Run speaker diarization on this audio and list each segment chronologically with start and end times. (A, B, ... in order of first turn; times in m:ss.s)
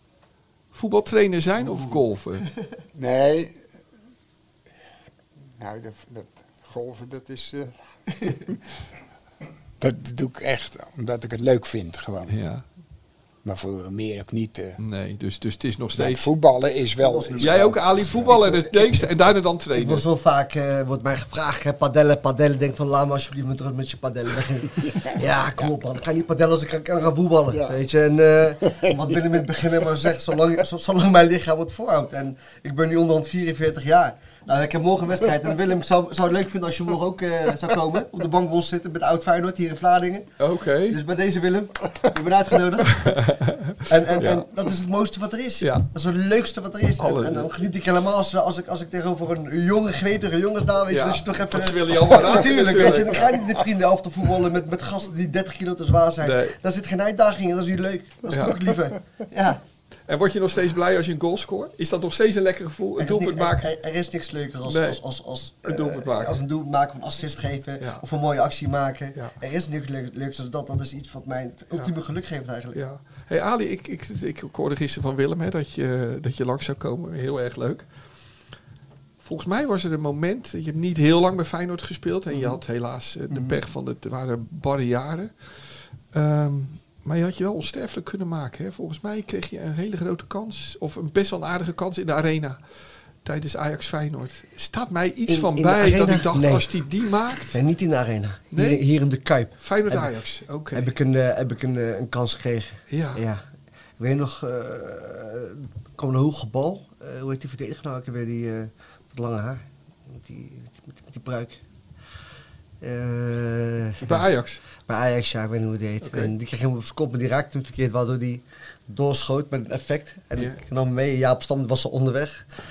0:00.7-0:02.5 A
0:01.6-0:02.0 B
0:02.9-0:03.6 C
0:05.6-0:08.6 C
0:09.8-0:12.3 C
0:12.3-0:12.6 A
0:13.4-0:14.8 C
0:14.8-0:16.3 A
0:15.9-0:18.2 C
0:17.0-0:18.7 B
0:17.4-0:20.0 A
0:19.7-0:40.3 B
0:24.8-0:25.7 C
0:27.5-0:27.8 C
0:28.6-0:29.4 C
0:40.4-0:41.0 A
0:40.9-0:43.2 B
0:42.9-0:44.4 A
0:43.8-0:59.6 B
0:45.6-0:45.9 A
0:47.0-0:47.5 A
0:50.9-0:53.4 A
0:56.2-0:56.6 A
0:58.3-0:58.6 A
1:00.1-1:03.7 A
1:03.0-1:12.8 B
1:04.6-1:05.0 A
1:05.6-1:06.4 A
1:12.7-1:17.8 A
1:19.2-1:25.3 A
1:22.3-1:22.6 B
1:23.3-1:23.6 B
1:26.1-1:32.6 A
1:33.2-1:37.6 A
1:35.3-1:36.7 B
1:37.5-1:40.1 B
1:38.5-1:38.8 A
1:39.6-1:40.9 A
1:40.7-1:43.4 B
1:42.9-1:43.2 A
1:44.0-1:51.6 B
1:52.8-1:54.3 B
1:54.0-1:54.6 A
1:54.8-2:02.4 B
1:56.0-1:56.3 A
2:00.4-2:00.6 A